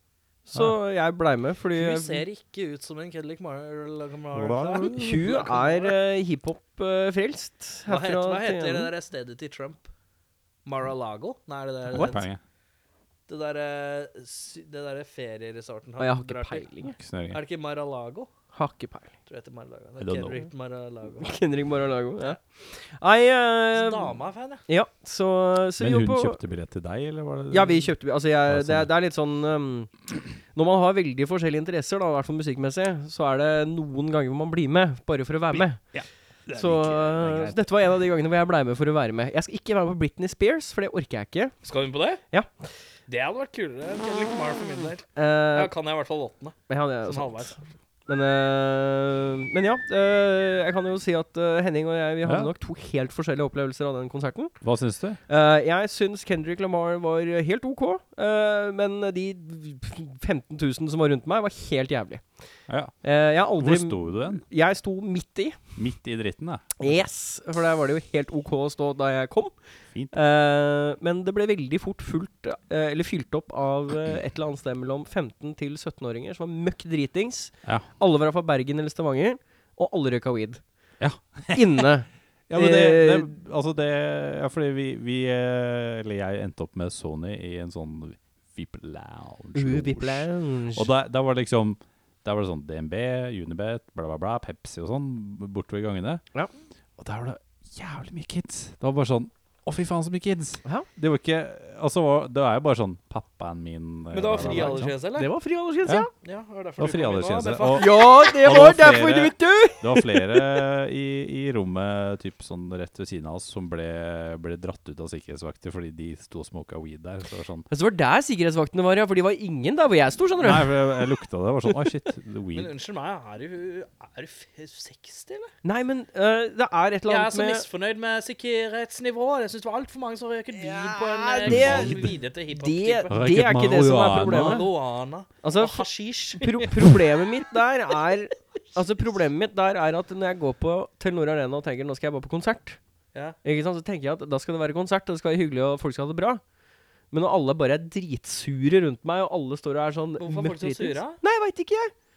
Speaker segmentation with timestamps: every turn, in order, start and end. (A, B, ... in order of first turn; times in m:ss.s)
0:00.5-0:02.2 A
0:01.7-0:06.0 B
0:04.3-0:05.3 C
0:05.0-0:08.9 A
0:07.9-0:09.9 B
0:10.6-0:12.2 B
0:11.9-0:12.4 C
0:11.9-0:12.2 A
0:13.3-0:16.7 B
0:16.0-0:17.0 A
0:16.9-0:17.4 C
0:17.3-0:18.3 B
0:18.5-0:19.1 A
0:19.3-0:21.4 B
0:20.0-0:20.4 C
0:21.2-0:24.2 A
0:23.7-0:24.6 B
0:24.7-0:26.4 A
0:25.8-0:28.9 C
0:27.5-0:29.9 A
0:30.5-0:41.6 A
0:35.5-0:37.6 C
0:41.6-0:42.2 B
0:43.1-0:47.6 B
0:45.2-0:45.7 A
0:46.7-0:47.6 A
0:48.1-0:54.6 A
0:52.2-0:52.5 C
0:54.6-0:55.2 C
0:55.3-1:02.3 A
1:02.7-1:04.4 C
1:03.0-1:05.6 A
1:05.8-1:06.7 C
1:06.8-1:09.6 A
1:10.1-1:20.6 A
1:21.0-1:21.9 C
1:21.5-1:23.3 A
1:22.5-1:36.2 C
1:29.5-1:30.9 A
1:37.0-1:44.9 C
1:44.1-1:45.3 B
1:44.4-1:46.1 A
1:46.2-1:47.9 B
1:46.8-1:57.7 C
1:47.7-1:50.1 A
1:57.7-2:00.8 A
2:00.4-2:02.7 C
2:02.5-2:05.5 B
2:05.6-2:07.6 A
2:07.1-2:13.1 B
2:10.5-2:14.7 A
2:11.4-2:12.1 C
2:13.1-2:14.6 C
2:14.1-2:16.9 B
2:15.4-2:22.8 A
2:23.4-2:26.4 A
2:27.1-2:31.9 A
2:30.2-2:31.2 B